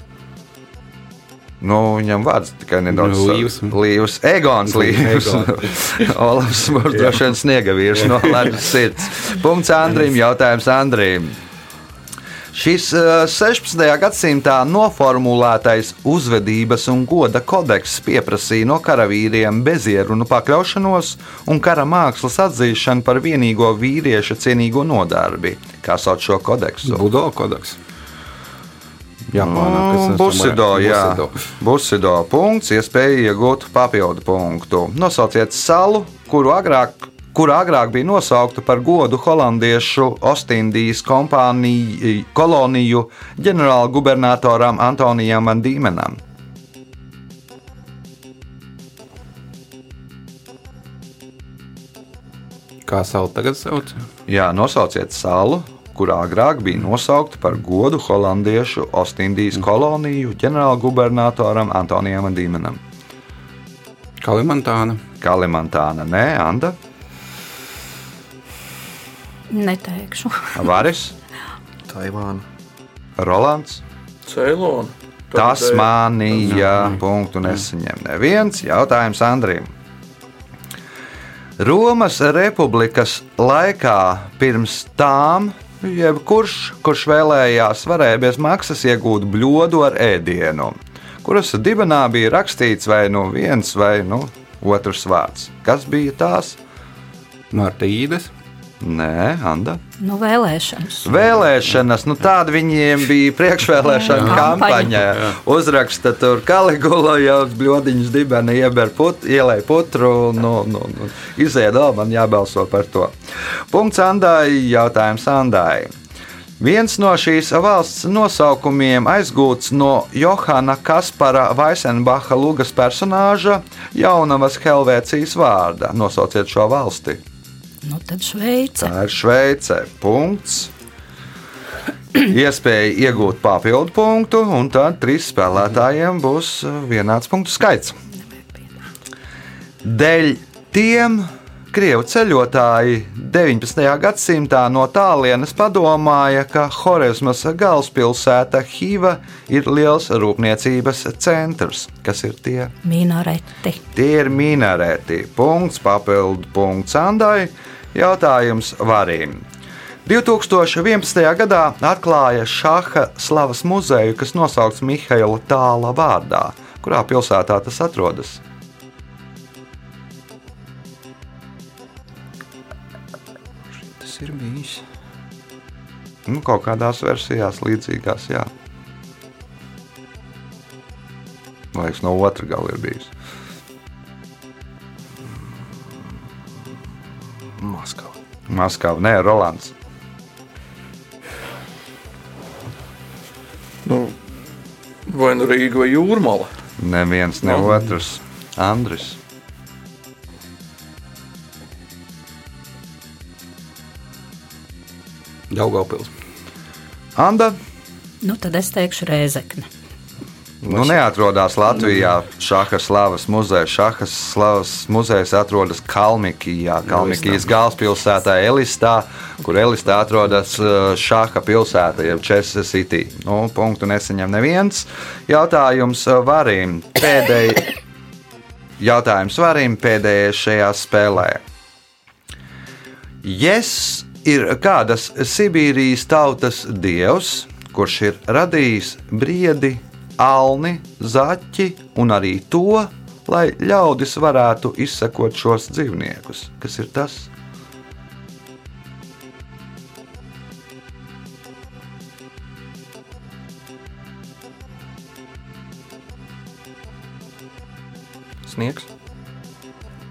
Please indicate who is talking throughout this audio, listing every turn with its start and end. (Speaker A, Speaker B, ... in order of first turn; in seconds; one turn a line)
Speaker A: 1.6-11.3
Speaker B: 2.9-3.8
Speaker B: 4.6-5.7
Speaker B: 8.0-8.4
Speaker A: 12.5-27.0
Speaker B: 26.8-27.8
Speaker B: 29.3-31.4
Speaker A: 29.4-46.2
Speaker B: 52.9-54.0
Speaker A: 54.3-62.8
Speaker B: 64.2-65.0
Speaker A: 65.2-66.8
Speaker C: 69.5-70.6
Speaker A: 70.5-71.1
Speaker D: 71.9-72.4
Speaker A: 73.2-73.8
Speaker E: 74.2-76.5
Speaker A: 75.3-79.7
Speaker B: 76.6-76.9
Speaker A: 81.6-96.6
Speaker B: 97.5-98.3
Speaker A: 98.8-99.8
Speaker C: 100.0-101.1
Speaker A: 101.0-113.1
Speaker C: 103.8-105.0
Speaker A: 113.7-115.9
Speaker A: 116.6-127.2
Speaker C: 127.8-128.9
Speaker A: 128.8-130.7
Speaker A: 132.2-137.9
Speaker A: 139.8-152.7
Speaker C: 152.8-153.8
Speaker A: 153.9-159.4
Speaker A: 160.1-168.4
Speaker D: 173.7-174.8
Speaker A: 176.3-178.5
Speaker A: 181.7-183.1
Speaker D: 187.6-188.2
Speaker A: 188.5-189.7
Speaker E: 193.8-194.2
Speaker E: 195.1-196.5
Speaker A: 196.8-199.2
Speaker B: 205.5-206.1
Speaker A: 207.2-207.6
Speaker C: 208.2-209.7
Speaker D: 210.6-210.9
Speaker A: 210.7-227.7
Speaker A: 228.8-231.4
Speaker A: 233.2-247.3
Speaker D: 258.4-258.9